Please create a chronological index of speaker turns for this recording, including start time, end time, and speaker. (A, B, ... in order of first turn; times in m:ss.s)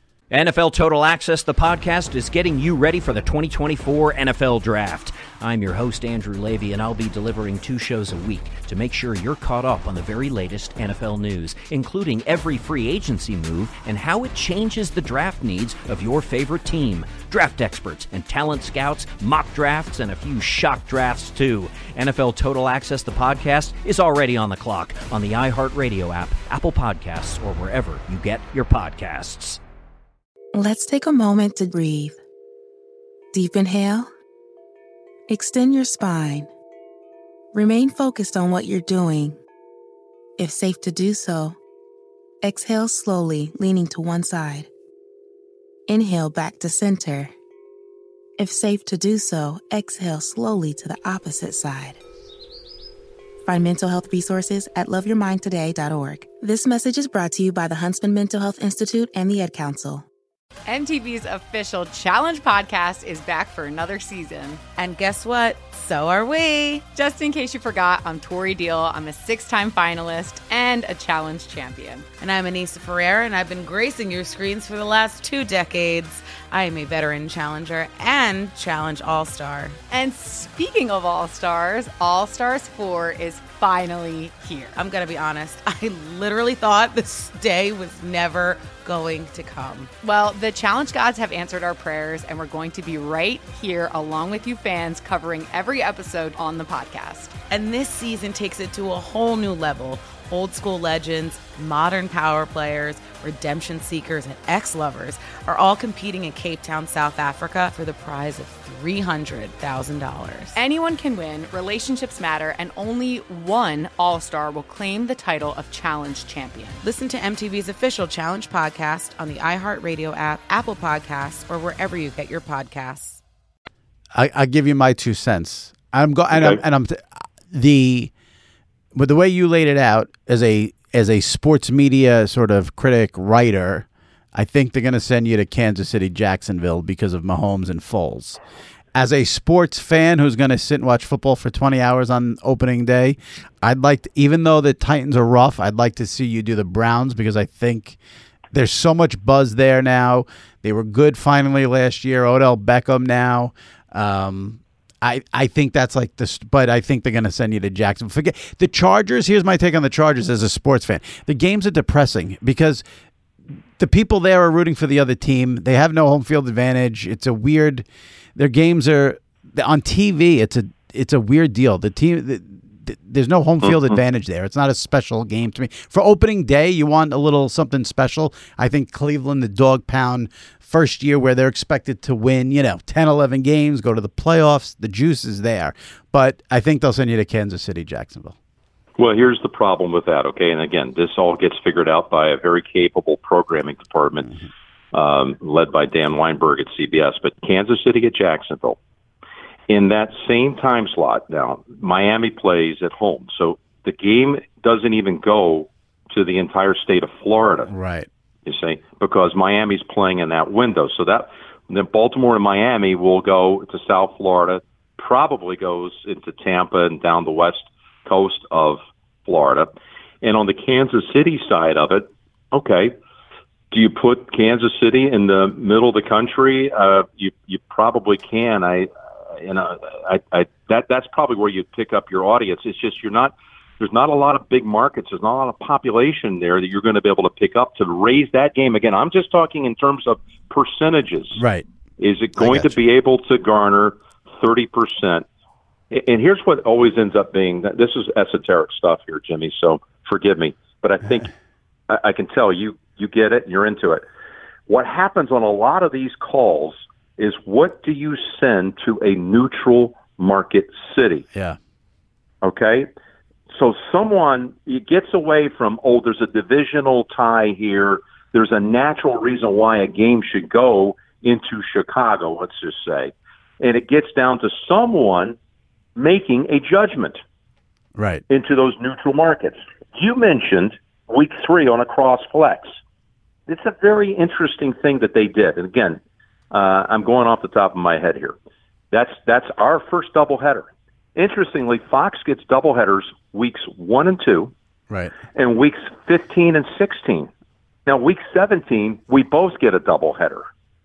0:00.3-0:29.6 A
0:30.5-0:32.2 B
0:33.3-0:34.1 B
0:35.3-0:36.5 B
0:37.5-0:39.4 B
0:40.4-0:41.6 B
0:42.4-0:44.7 B
0:45.9-0:47.3 B
0:48.4-0:52.0 B
0:53.4-1:00.1 B
1:00.6-1:04.6 C
1:04.8-1:06.8 D
1:06.9-1:12.1 C
1:12.2-1:19.8 D
1:19.9-1:24.7 C
1:24.8-1:29.9 D
1:30.0-1:37.3 C
1:37.5-1:50.6 D
1:50.6-1:56.8 C
1:56.8-2:03.2 D
2:04.1-2:08.1 E
2:06.3-2:06.6 F
2:08.9-2:18.4 E
2:18.9-2:28.0 E
2:28.5-2:42.8 E
2:43.8-3:08.3 E
2:53.6-2:54.0 F
3:09.0-3:14.3 F
3:14.9-3:18.8 F
3:19.7-3:27.7 F
3:27.7-3:28.1 E
3:28.4-3:42.9 F
3:43.7-4:01.4 F
4:01.3-4:01.6 E
4:02.0-4:05.2 F
4:02.4-4:02.7 E
4:05.9-4:11.3 F
4:11.9-4:14.0 F
4:14.7-4:21.2 F
4:21.3-4:21.6 E
4:22.4-4:22.9 F
4:23.5-4:35.4 F
4:36.0-4:37.2 F
4:38.0-4:38.2 E
4:38.3-4:42.7 F
4:43.5-4:46.0 F
4:46.5-4:48.3 F
4:48.9-4:54.5 F
4:54.9-4:55.1 E
4:55.3-4:57.3 F
4:57.8-5:00.4 F